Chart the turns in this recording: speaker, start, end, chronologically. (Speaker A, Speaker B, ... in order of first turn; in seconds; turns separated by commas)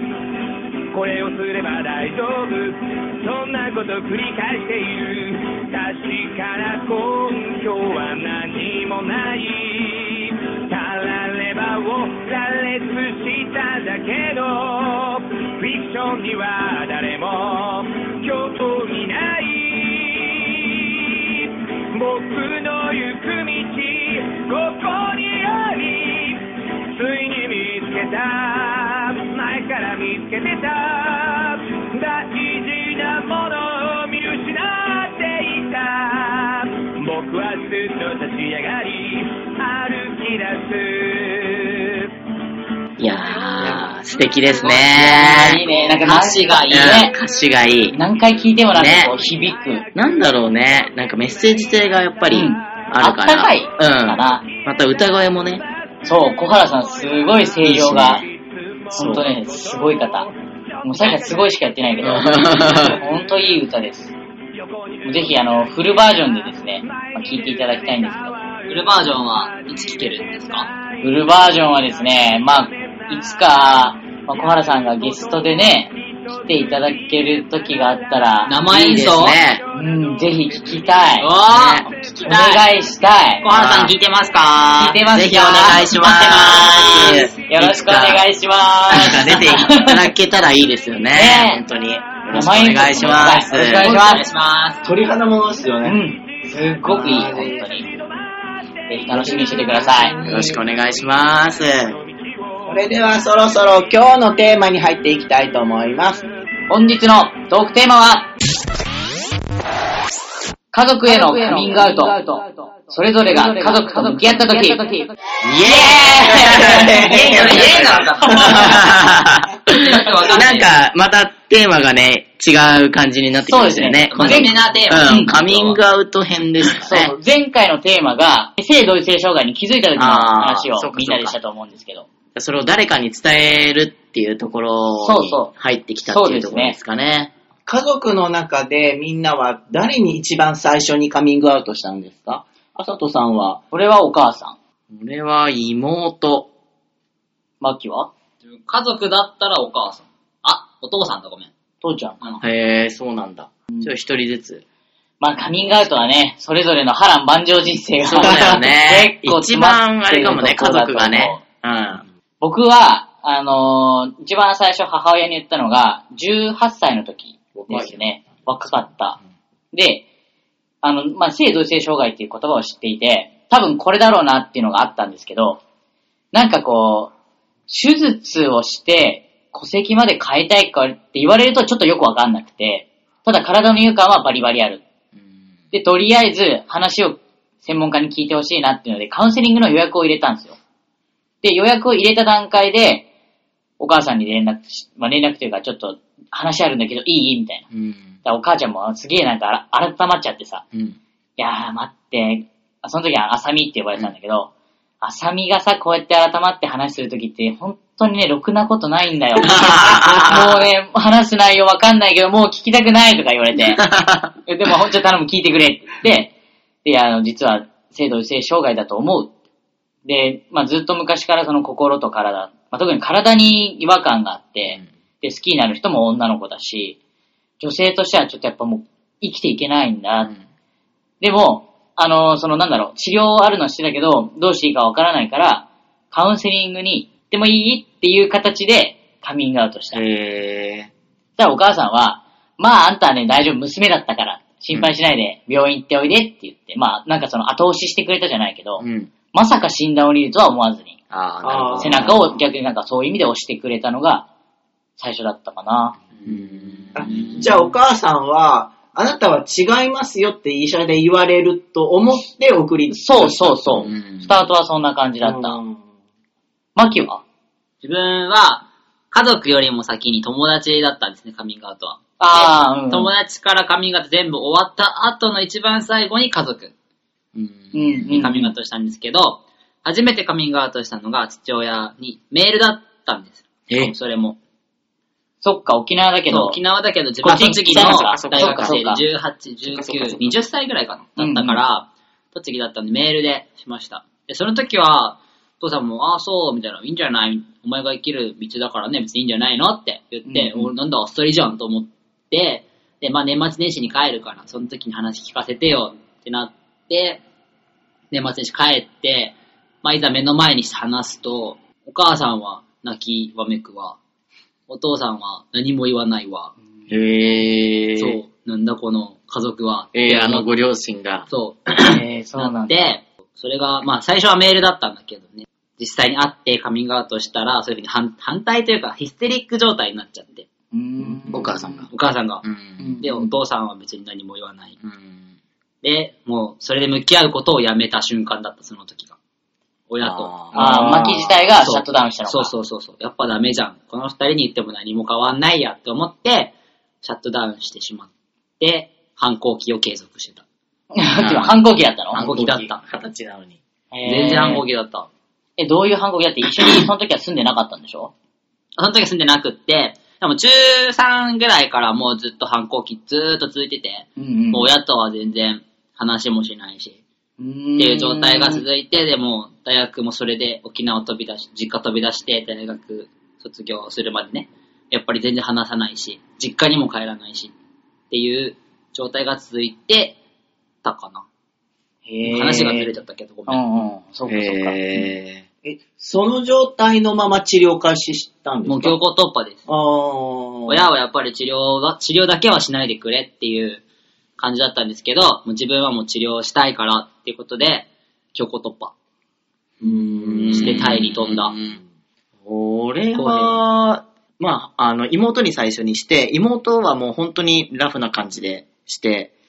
Speaker A: 0.9-41.9, Speaker B: 43.0-45.6, Speaker C: 44.6-45.0, Speaker D: 44.9-47.1, Speaker A: 45.5-46.1, Speaker C: 46.0-47.0, Speaker B: 46.7-48.0, Speaker D: 47.9-49.9, Speaker A: 47.9-61.4, Speaker B: 48.7-49.2, Speaker B: 50.0-55.6, Speaker D: 52.3-54.5, Speaker D: 56.0-58.2, Speaker B: 57.6-58.2, Speaker D: 58.9-60.3, Speaker B: 59.0-59.3, Speaker D: 60.8-64.1, Speaker A: 62.0-63.5, Speaker B: 62.0-63.0, Speaker A: 64.5-83.0, Speaker D: 65.0-68.4, Speaker C: 68.7-70.7, Speaker D: 71.0-78.6, Speaker C: 78.5-79.4, Speaker B: 78.7-79.6, Speaker D: 79.7-81.3, Speaker C: 81.2-82.7, Speaker B: 81.5-81.9, Speaker D: 82.2-83.5, Speaker C: 83.4-87.3, Speaker B: 83.5-83.9, Speaker D: 84.8-90.0, Speaker B: 85.1-88.2, Speaker B: 88.9-93.9, Speaker A: 89.3-89.8, Speaker D: 91.1-91.6, Speaker A: 91.6-93.5, Speaker D: 92.3-94.2, Speaker C: 93.8-94.8, Speaker E: 94.8-96.0, Speaker A: 94.8-99.8, Speaker D: 95.8-97.9, Speaker E: 96.9-97.6, Speaker D: 98.9-100.1, Speaker E: 99.1-100.6, Speaker B: 100.2-102.0, Speaker A: 100.3-104.2, Speaker E: 102.7-106.2, Speaker A: 106.0-106.3, Speaker D: 106.7-108.3, Speaker D: 110.7-115.1, Speaker B: 115.4-116.9, Speaker D: 115.6-117.4, Speaker E: 116.3-118.8, Speaker C: 116.5-118.9, Speaker B: 118.3-127.1, Speaker C: 119.7-120.7, Speaker D: 123.5-125.3, Speaker C: 124.1-125.8, Speaker D: 126.8-132.1, Speaker B: 130.0-131.4, Speaker B: 132.3-137.3, Speaker D: 135.0-135.5, Speaker D: 136.1-136.8, Speaker E: 137.7-143.6, Speaker D: 143.7-144.6, Speaker B: 144.9-146.5, Speaker D: 147.6-148.1, Speaker C: 148.4-151.5, Speaker D: 151.8-152.4, Speaker B: 152.4-154.6, Speaker D: 155.2-161.4, Speaker B: 158.0-162.1, Speaker D: 162.4-169.2, Speaker B: 167.6-168.0, Speaker D: 169.7-170.1, Speaker D: 170.8-175.6, Speaker D: 176.3-177.1, Speaker D: 177.7-184.8, Speaker D: 185.7-190.6, Speaker D: 191.4-193.1, Speaker D: 193.8-197.7, Speaker B: 197.7-198.2, Speaker D: 198.2-200.7, Speaker D: 201.4-204.5, Speaker D: 205.0-213.8, Speaker B: 209.4-210.7, Speaker B: 213.8-214.3, Speaker D: 214.4-216.3, Speaker D: 216.8-219.3, Speaker D: 220.1-227.0, Speaker D: 227.6-230.3, Speaker D: 231.2-240.0, Speaker B: 239.9-240.9, Speaker D: 241.4-251.0, Speaker B: 248.8-249.1, Speaker B: 251.1-252.3, Speaker E: 251.4-252.1, Speaker D: 251.8-254.3, Speaker D: 255.0-256.0, Speaker B: 256.2-257.5, Speaker E: 256.9-263.6, Speaker D: 262.9-265.6, Speaker B: 263.6-264.3, Speaker E: 265.2-265.8, Speaker D: 266.8-267.2, Speaker C: 267.8-276.7, Speaker D: 272.2-273.1, Speaker B: 277.4-278.1, Speaker D: 277.7-278.5, Speaker C: 278.1-284.4, Speaker B: 283.7-283.9, Speaker D: 285.4-286.6, Speaker C: 286.3-307.2, Speaker B: 287.2-288.8, Speaker D: 287.2-289.0, Speaker B: 289.6-290.4, Speaker D: 291.2-291.6, Speaker D: 300.3-300.7, Speaker C: 308.1-314.0, Speaker C: 314.7-316.5, Speaker B: 316.9-318.2, Speaker C: 318.0-320.5, Speaker B: 319.9-321.3, Speaker C: 321.3-330.5, Speaker D: 321.8-322.8, Speaker D: 330.7-331.8, Speaker B: 331.3-331.9, Speaker C: 331.9-332.4, Speaker B: 332.4-333.0, Speaker D: 332.8-333.3, Speaker C: 333.0-334.8, Speaker B: 334.8-335.3, Speaker C: 335.8-339.2, Speaker C: 339.9-350.4, Speaker B: 340.0-341.2, Speaker D: 340.5-342.5, Speaker D: 350.9-352.2, Speaker B: 351.2-351.6, Speaker B: 352.1-353.6, Speaker C: 352.2-352.8, Speaker D: 353.9-354.6, Speaker C: 354.1-355.1, Speaker D: 355.6-358.1, Speaker C: 358.8-367.0, Speaker D: 364.2-364.7, Speaker D: 367.4-368.6, Speaker C: 367.8-377.5, Speaker C: 378.1-380.2, Speaker C: 380.8-381.2, Speaker D: 382.1-382.9, Speaker C: 382.2-383.7, Speaker D: 383.5-385.1, Speaker B: 384.3-385.4, Speaker E: 385.6-389.0, Speaker C: 388.7-389.7, Speaker E: 389.7-390.9, Speaker C: 390.7-393.8, Speaker C: 394.4-398.9, Speaker B: 399.8-401.8, Speaker C: 400.2-401.6, Speaker B: 402.4-409.3, Speaker C: 403.1-403.6